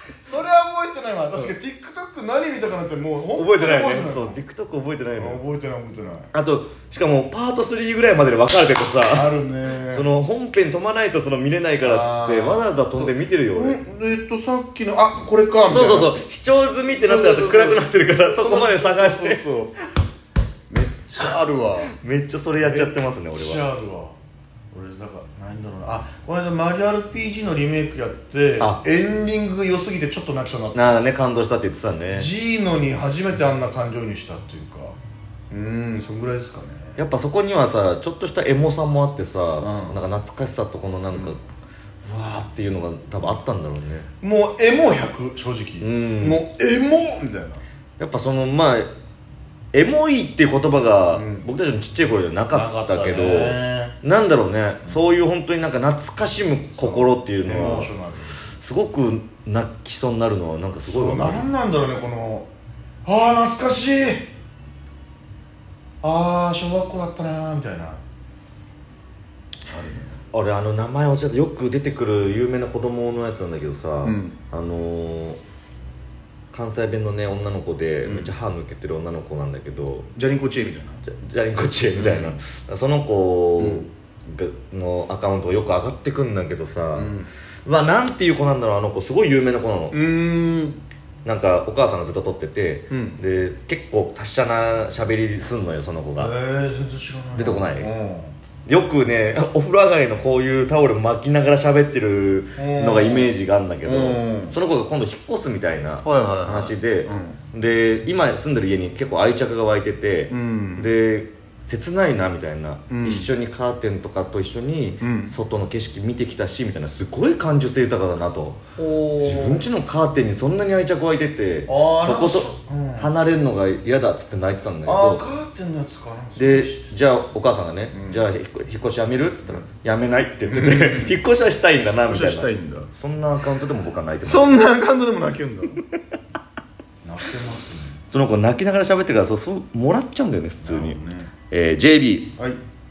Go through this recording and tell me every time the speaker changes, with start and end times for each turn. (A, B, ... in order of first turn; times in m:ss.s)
0:00.2-0:04.4 A
0:03.3-0:05.4 B
0:05.1-0:06.3 A
0:06.3-0:09.3 B
0:09.1-0:10.1 A
0:09.9-0:13.8 B
0:11.8-0:16.2 A
0:15.7-0:19.4 B
0:17.0-0:19.8 A
0:20.7-0:21.9 A
0:21.9-0:23.6 B
0:22.6-0:24.2 A
0:24.7-0:31.0 A
0:30.7-0:32.3 B
0:32.1-0:35.0 A
0:35.5-0:37.0 A
0:37.0-0:41.4 B
0:39.6-0:40.0 A
0:42.0-0:44.1 B
0:44.2-0:47.6 A
0:45.8-0:46.4 B
0:48.0-0:48.9 B
0:49.7-0:57.9 B
0:51.1-0:51.5 A
0:52.5-0:54.0 A
0:56.8-0:58.4 A
0:58.6-1:01.5 B
1:00.9-1:02.5 A
1:03.0-1:04.2 A
1:06.0-1:08.0 A
1:09.7-1:10.2 A
1:10.3-1:15.4 B
1:14.0-1:14.4 A
1:16.5-1:20.1 B
1:18.0-1:18.3 A
1:20.2-1:21.0 A
1:21.0-1:27.1 B
1:21.9-1:22.4 A
1:23.6-1:23.9 A
1:26.9-1:27.3 A
1:27.6-1:30.0 B
1:29.9-1:30.8 A
1:31.2-1:36.3 B
1:32.9-1:33.2 A
1:36.2-1:38.3 A
1:37.4-1:37.9 B
1:38.6-1:58.6 B
1:42.6-1:43.3 A
1:43.8-1:44.6 A
1:46.0-1:47.4 A
1:50.3-1:50.9 A
1:52.9-1:53.3 A
1:55.0-1:55.3 A
1:58.8-1:59.7 A
1:59.1-2:05.2 B
2:01.7-2:03.1 A
2:04.8-2:06.9 A
2:06.4-2:14.6 B
2:07.9-2:08.3 A
2:10.4-2:11.2 A
2:12.0-2:12.9 A
2:14.2-2:15.8 A
2:17.0-2:18.0 A
2:18.1-2:21.0 B
2:20.6-2:21.3 A
2:21.5-2:22.3 B